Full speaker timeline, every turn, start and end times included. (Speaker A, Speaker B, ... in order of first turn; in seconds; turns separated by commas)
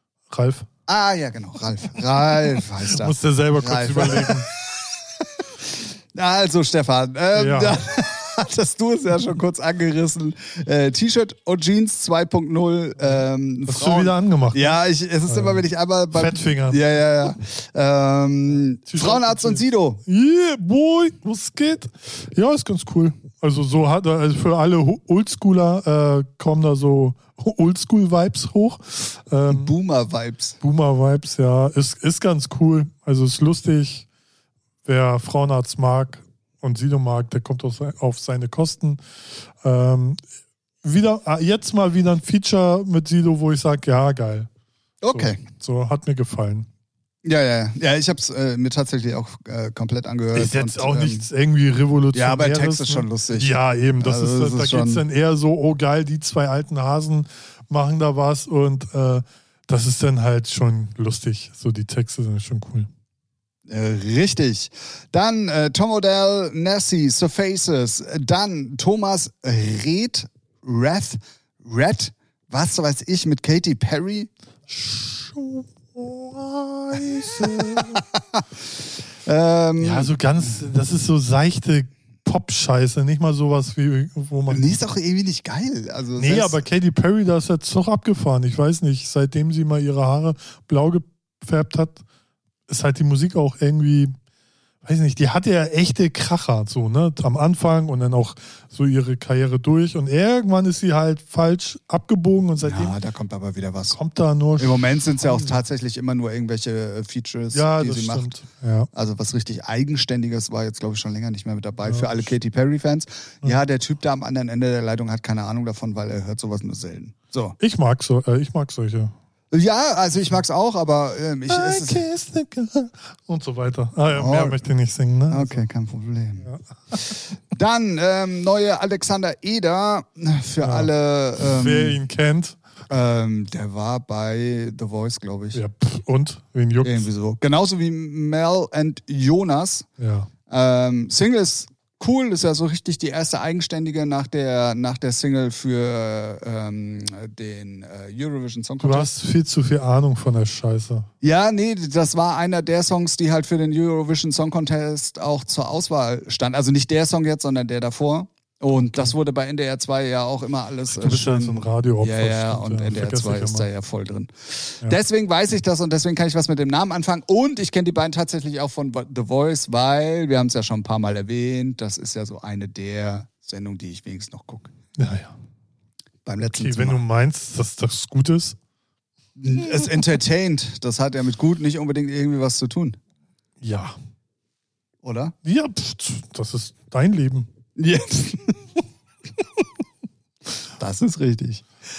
Speaker A: 0.3-0.7, Speaker B: 0.9-20.0, Speaker A: 2.8-4.5, Speaker A: 7.3-7.8, Speaker A: 13.0-16.8, Speaker A: 18.9-29.7, Speaker B: 29.5-30.6, Speaker A: 30.6-34.1, Speaker A: 34.8-39.0, Speaker A: 39.6-40.2, Speaker A: 40.8-44.5, Speaker B: 45.0-45.4, Speaker A: 45.1-46.7, Speaker B: 47.2-51.2, Speaker A: 50.3-62.9, Speaker B: 52.1-55.0, Speaker B: 63.7-74.3, Speaker A: 74.7-78.0, Speaker B: 77.0-78.4, Speaker B: 79.2-80.1, Speaker A: 79.8-84.7, Speaker B: 84.5-86.6, Speaker A: 86.2-92.0, Speaker A: 92.7-94.1, Speaker A: 94.8-103.0, Speaker B: 102.6-104.0, Speaker A: 103.9-105.6, Speaker B: 104.6-108.3, Speaker A: 107.5-108.9, Speaker B: 108.9-117.6, Speaker A: 111.8-112.3, Speaker A: 117.6-119.1, Speaker B: 119.5-122.0, Speaker A: 121.5-125.7, Speaker B: 124.1-124.6, Speaker B: 125.3-132.0, Speaker A: 126.4-127.2, Speaker A: 130.6-132.6, Speaker B: 132.9-135.6, Speaker A: 135.5-137.1, Speaker B: 136.8-139.9, Speaker A: 140.0-140.3, Speaker B: 140.5-149.1, Speaker A: 148.8-151.1, Speaker B: 151.2-174.7, Speaker A: 160.9-163.7, Speaker A: 175.0-175.3, Speaker B: 176.2-177.0, Speaker A: 176.4-178.6, Speaker B: 179.4-183.0, Speaker A: 183.6-183.9, Speaker B: 185.0-185.3, Speaker A: 185.4-187.5, Speaker B: 187.8-188.6, Speaker B: 190.8-191.7